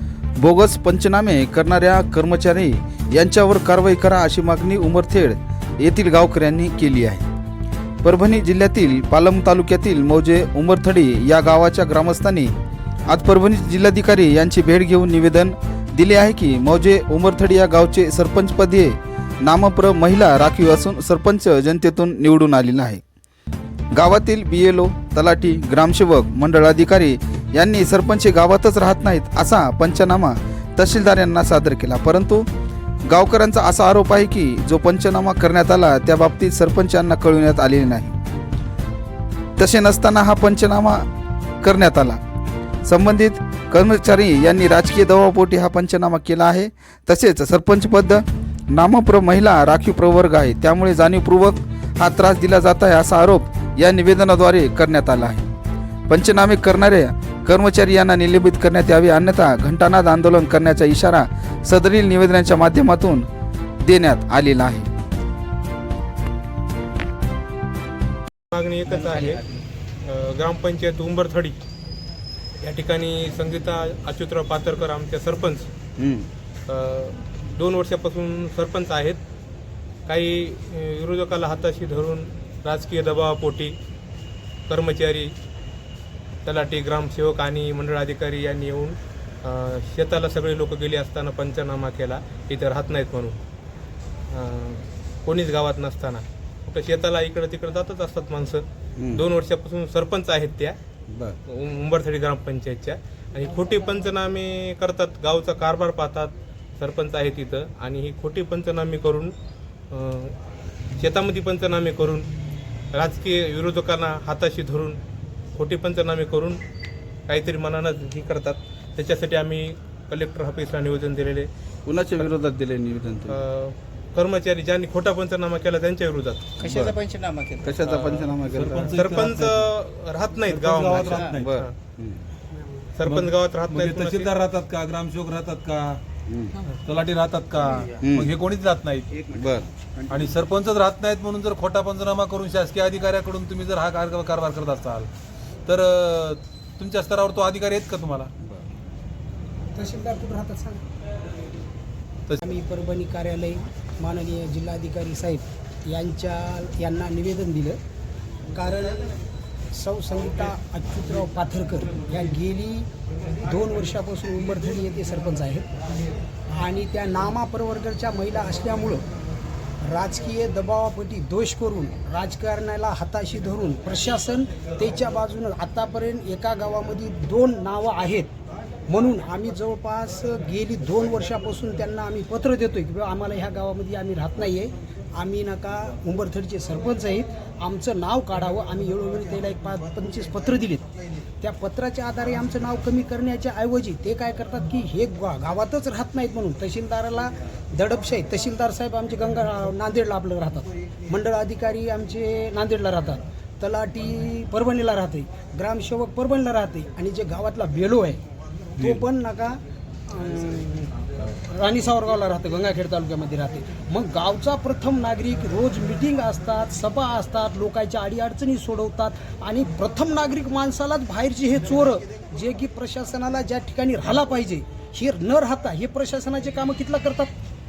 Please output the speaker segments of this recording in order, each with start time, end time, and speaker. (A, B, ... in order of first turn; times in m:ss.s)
0:00.4-0:07.3 A
0:08.0-0:12.5 A
0:13.1-0:23.0 A
0:23.9-0:32.5 A
0:33.1-0:38.2 A
0:39.6-0:41.1 A
0:41.6-0:42.2 A
0:42.9-0:55.5 A
0:56.1-1:03.3 A
1:03.8-1:04.9 A
1:08.5-1:09.4 B
1:10.0-1:11.6 B
1:12.6-1:15.7 B
1:16.0-1:16.3 A
1:16.7-1:19.2 B
1:20.1-1:23.8 B
1:24.7-1:25.3 B
1:26.4-1:33.4 B
1:34.3-1:40.8 B
1:39.0-1:39.2 A
1:41.1-1:41.4 A
1:41.5-1:49.3 B
1:49.9-1:50.4 B
1:51.0-1:52.3 B
1:53.0-1:55.0 B
1:55.6-1:56.6 B
1:57.3-2:01.5 B
2:01.9-2:03.4 A
2:03.3-2:06.5 B
2:06.6-2:07.0 A
2:06.6-2:07.7 C
2:07.6-2:09.0 A
2:07.8-2:08.4 B
2:08.5-2:09.7 D
2:09.0-2:11.7 B
2:10.5-2:11.5 D
2:11.0-2:11.4 C
2:11.4-2:12.2 A
2:13.0-2:14.3 B
2:13.0-2:16.0 D
2:16.3-2:16.5 A
2:16.8-2:19.1 D
2:18.0-2:18.3 A
2:19.1-2:20.3 C
2:19.3-2:19.7 A
2:20.1-2:25.1 D
2:25.7-2:28.3 D
2:29.7-2:30.8 E
2:32.4-2:37.8 E
2:38.5-2:39.1 E
2:39.7-2:42.9 E
2:43.4-2:45.7 E
2:46.6-2:49.0 E
2:49.8-2:58.3 E
2:58.9-3:10.9 E
3:11.4-3:28.2 E
3:28.8-3:47.3 E